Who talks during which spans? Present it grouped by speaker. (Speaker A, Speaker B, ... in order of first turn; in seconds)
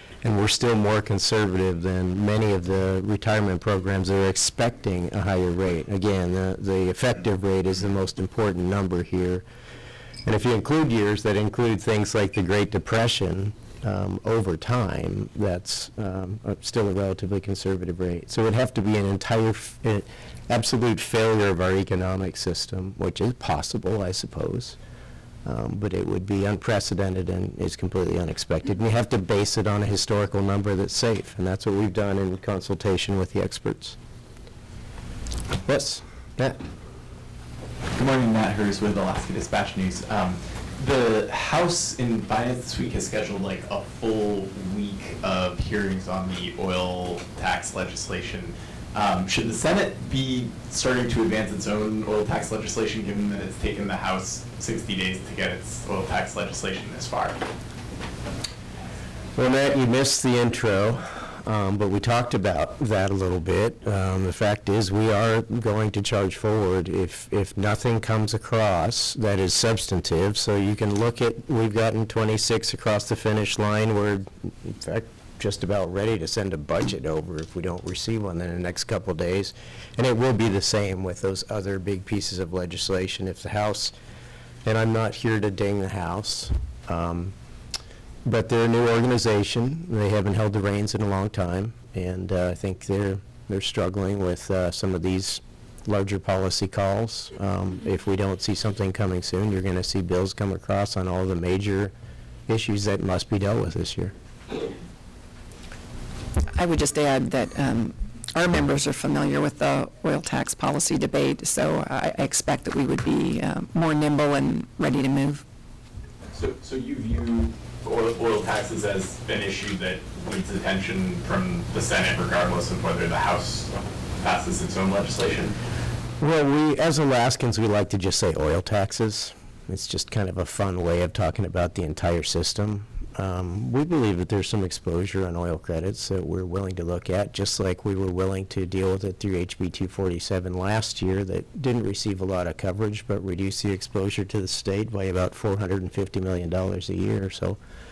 Speaker A: 0.2-9.4, 10.2-24.8, 25.4-34.0, 35.6-36.6, 59.4-83.9, 84.7-87.3, 88.2-101.9, 102.5-104.1, 126.2-147.6
Speaker B: 38.0-57.4, 116.3-125.5
Speaker C: 106.5-115.4